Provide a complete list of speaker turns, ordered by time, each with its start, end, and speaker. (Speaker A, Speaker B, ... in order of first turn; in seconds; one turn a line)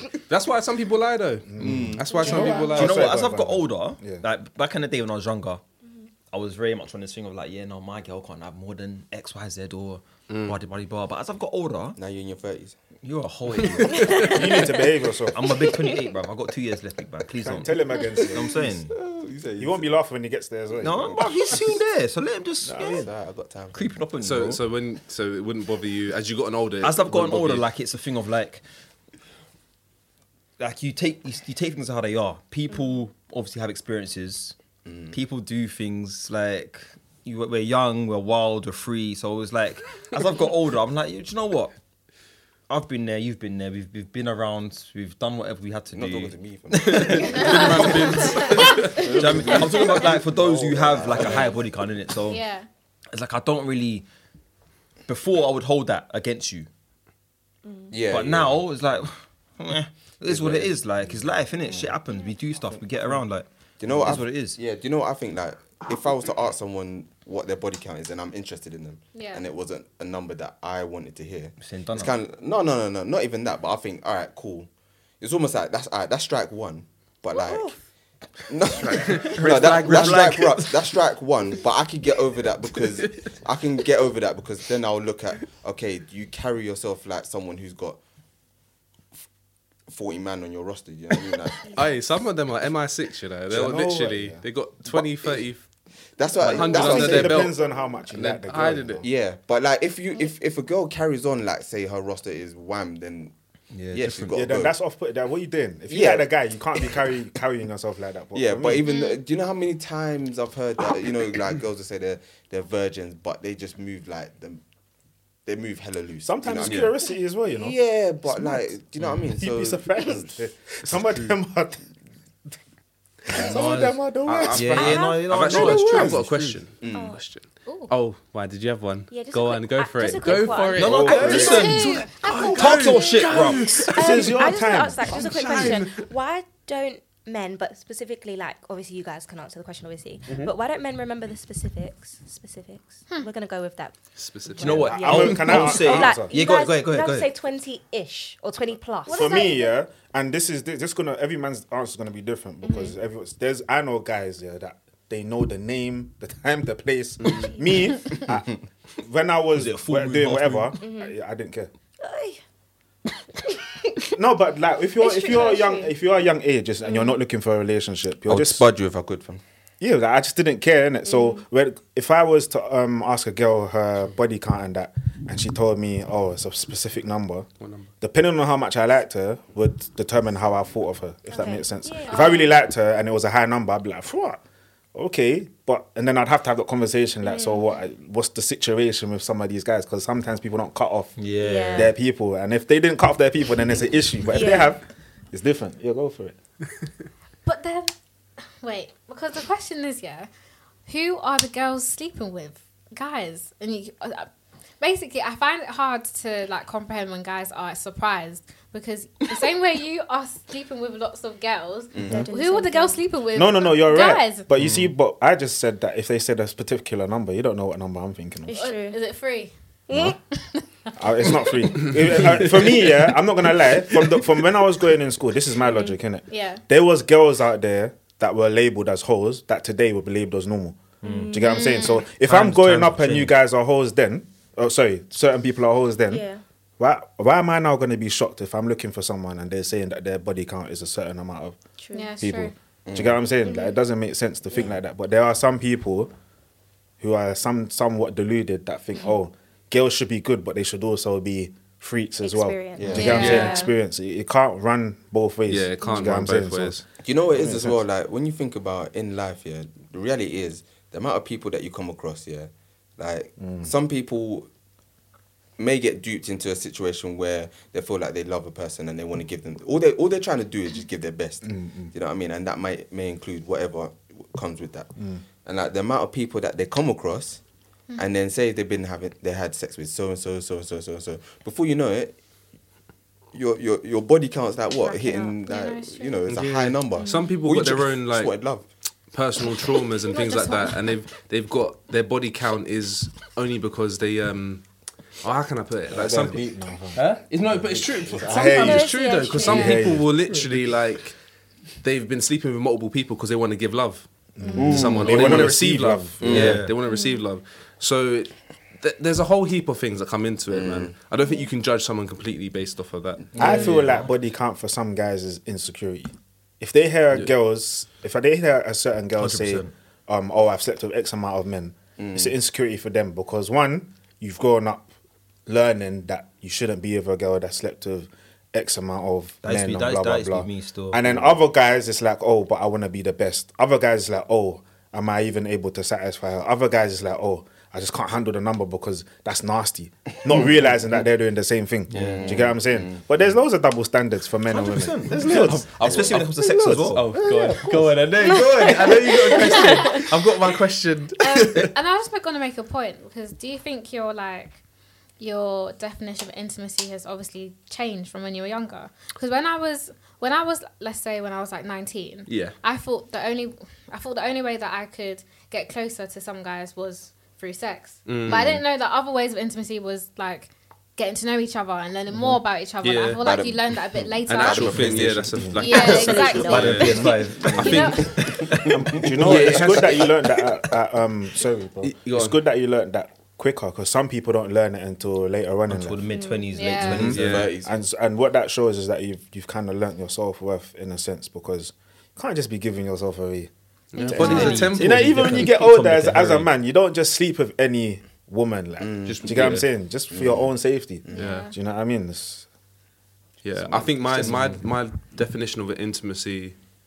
Speaker A: 0.3-3.0
Speaker B: 1.5-4.2
Speaker C: 1.6-2.1
Speaker D: 2.1-2.8
Speaker E: 2.7-5.6
Speaker E: 6.3-12.0
Speaker A: 10.3-10.6
Speaker C: 12.0-12.8
Speaker E: 13.0-14.3
Speaker A: 13.6-14.5
Speaker D: 13.9-14.8
Speaker B: 14.2-15.6
Speaker E: 15.3-18.9
Speaker B: 17.4-18.7
Speaker C: 18.9-19.9
Speaker B: 19.6-21.6
Speaker E: 20.8-23.1
Speaker B: 22.6-23.1
Speaker C: 23.0-23.8
Speaker E: 23.7-24.6
Speaker A: 24.2-27.6
Speaker E: 26.8-28.6
Speaker E: 30.6-34.6
Speaker C: 34.9-35.1
Speaker E: 35.1-41.7
Speaker E: 42.7-52.5
Speaker C: 45.9-48.0
Speaker F: 47.3-49.0
Speaker A: 47.3-49.5
Speaker C: 48.7-51.6
Speaker F: 52.3-52.7
Speaker E: 53.1-54.1
Speaker E: 55.1-56.7
Speaker D: 57.6-58.0
Speaker C: 57.9-58.6
Speaker E: 58.1-64.6
Speaker C: 60.3-60.8
Speaker C: 63.8-77.7
Speaker F: 69.2-69.5
Speaker E: 71.6-72.1
Speaker D: 77.3-77.7
Speaker C: 78.5-88.0
Speaker A: 78.8-80.3
Speaker E: 79.1-80.7
Speaker A: 82.8-83.3
Speaker C: 89.9-91.7
Speaker A: 91.7-95.7
Speaker B: 93.5-94.4
Speaker C: 94.9-95.3
Speaker C: 96.2-97.5
Speaker A: 96.4-97.6
Speaker B: 96.5-99.1
Speaker A: 98.1-99.0
Speaker C: 99.0-103.3
Speaker E: 103.7-104.4
Speaker C: 103.9-104.7
Speaker B: 104.3-108.9
Speaker C: 105.9-106.3
Speaker C: 108.3-114.6
Speaker D: 108.8-109.2
Speaker C: 115.5-116.9
Speaker B: 116.2-117.8
Speaker A: 116.7-116.9
Speaker C: 117.5-120.5
Speaker B: 118.3-118.7
Speaker B: 119.3-121.8
Speaker B: 123.3-126.2
Speaker E: 123.4-126.6
Speaker A: 124.2-134.5
Speaker C: 126.8-127.2
Speaker D: 126.9-127.2
Speaker F: 127.7-127.9
Speaker D: 129.1-131.7
Speaker E: 130.7-133.9
Speaker B: 130.8-131.9
Speaker F: 131.3-133.5
Speaker B: 133.9-135.7
Speaker D: 133.9-149.6
Speaker A: 135.1-136.1
Speaker A: 144.2-145.5
Speaker E: 144.6-147.3
Speaker B: 144.6-146.4
Speaker F: 149.1-149.7
Speaker B: 149.1-161.7
Speaker D: 152.6-152.9
Speaker A: 157.2-157.5
Speaker D: 157.3-157.8
Speaker E: 159.6-160.8
Speaker D: 160.8-161.2
Speaker D: 162.0-162.4
Speaker B: 164.1-168.6
Speaker D: 165.0-165.9
Speaker D: 166.8-167.2
Speaker C: 168.3-169.4
Speaker B: 169.8-177.5
Speaker D: 171.1-171.4
Speaker A: 177.6-177.9
Speaker B: 178.0-184.4
Speaker D: 181.3-182.5
Speaker B: 184.9-191.2
Speaker D: 187.2-187.7
Speaker E: 191.2-192.0
Speaker D: 191.4-191.9
Speaker B: 191.8-196.4
Speaker D: 194.2-194.7
Speaker F: 197.5-197.9
Speaker F: 198.6-200.3
Speaker F: 200.9-214.5
Speaker C: 211.9-212.3
Speaker D: 212.1-213.0
Speaker B: 213.3-218.6
Speaker D: 218.5-219.0
Speaker F: 218.5-219.5
Speaker D: 219.9-220.2
Speaker F: 220.1-221.9
Speaker B: 221.0-236.2
Speaker A: 221.8-223.1
Speaker D: 225.6-226.0
Speaker F: 226.3-226.6
Speaker D: 231.0-231.7
Speaker F: 231.4-232.0
Speaker E: 232.3-233.3
Speaker D: 236.1-236.4
Speaker B: 236.8-241.6
Speaker D: 241.8-242.1
Speaker F: 241.9-242.5
Speaker B: 242.2-246.1
Speaker C: 242.9-243.2
Speaker D: 243.4-243.8
Speaker B: 247.0-257.8
Speaker D: 252.2-253.7
Speaker C: 252.8-253.2
Speaker F: 252.9-253.7
Speaker A: 253.2-253.5
Speaker A: 255.5-256.8
Speaker C: 257.0-264.5
Speaker B: 263.4-263.7
Speaker C: 265.6-274.9
Speaker B: 271.4-271.9
Speaker B: 275.0-275.2
Speaker C: 275.4-277.4
Speaker C: 278.0-282.1
Speaker C: 283.3-288.7
Speaker F: 284.9-286.2
Speaker D: 284.9-285.3
Speaker A: 286.3-288.3
Speaker D: 286.9-287.3
Speaker A: 289.1-294.6
Speaker F: 290.1-290.9
Speaker A: 295.2-301.2
Speaker B: 295.9-300.1
Speaker D: 298.3-299.8
Speaker F: 299.4-299.8
Speaker A: 301.8-313.9
Speaker B: 304.4-306.6
Speaker C: 304.6-305.5
Speaker E: 304.6-305.5
Speaker C: 306.2-306.6
Speaker E: 306.2-306.8
Speaker D: 306.9-307.2
Speaker C: 310.5-310.9
Speaker B: 313.4-324.9
Speaker E: 313.4-314.1
Speaker E: 319.2-319.7
Speaker C: 322.0-322.3
Speaker B: 325.5-346.2
Speaker E: 329.4-331.4
Speaker E: 341.9-342.6
Speaker C: 341.9-343.0
Speaker E: 344.5-348.1
Speaker A: 345.8-351.7
Speaker D: 348.2-350.0
Speaker F: 349.5-350.0
Speaker F: 351.2-354.6
Speaker F: 355.2-374.9
Speaker A: 362.3-362.6
Speaker A: 368.1-368.6
Speaker A: 372.8-373.2
Speaker C: 373.2-375.6
Speaker A: 374.2-378.0
Speaker B: 375.3-375.8
Speaker F: 375.6-378.4
Speaker D: 375.6-377.2
Speaker E: 376.3-379.5
Speaker B: 378.7-386.0
Speaker A: 379.2-380.3
Speaker A: 381.8-382.4
Speaker E: 385.7-387.5
Speaker D: 386.1-386.5
Speaker F: 386.5-387.1
Speaker A: 386.9-387.5
Speaker C: 387.0-387.7
Speaker B: 387.0-402.5
Speaker A: 393.9-395.6
Speaker F: 394.0-394.6
Speaker E: 394.1-396.5
Speaker C: 398.8-400.5
Speaker A: 399.1-399.7
Speaker F: 401.1-401.5
Speaker A: 401.1-401.5
Speaker A: 403.4-406.6
Speaker C: 403.6-404.3
Speaker E: 404.3-404.5